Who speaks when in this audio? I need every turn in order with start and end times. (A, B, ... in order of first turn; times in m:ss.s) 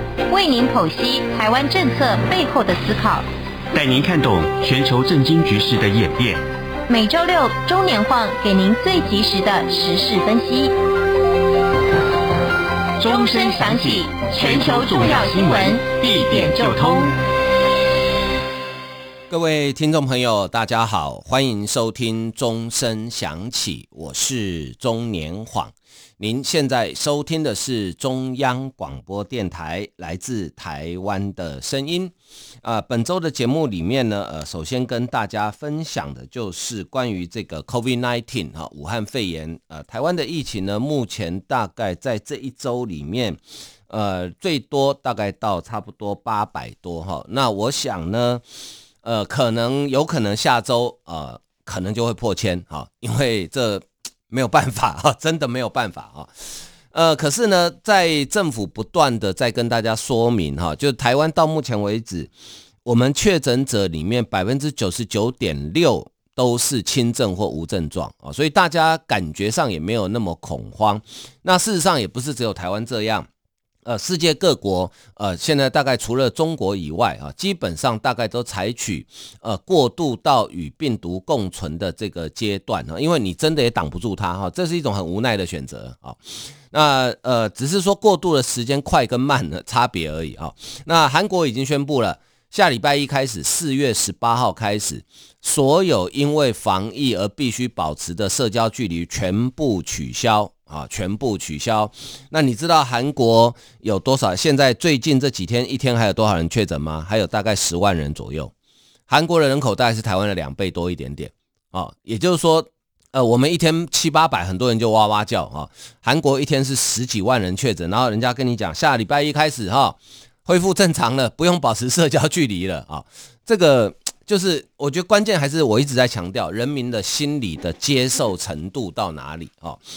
0:00.3-0:03.2 A
0:03.7-0:06.4 B
0:06.9-0:10.7 A
0:13.0-0:17.1 B
0:13.0-0:17.1 A
0:19.3-0:32.1 C
0:32.6-0:48.4 C
0:49.0-0:56.3 C
0:56.9-1:02.3 C
1:02.8-1:13.3 C
1:13.8-1:26.2 C
1:26.7-1:48.5 C
1:49.1-2:09.8 C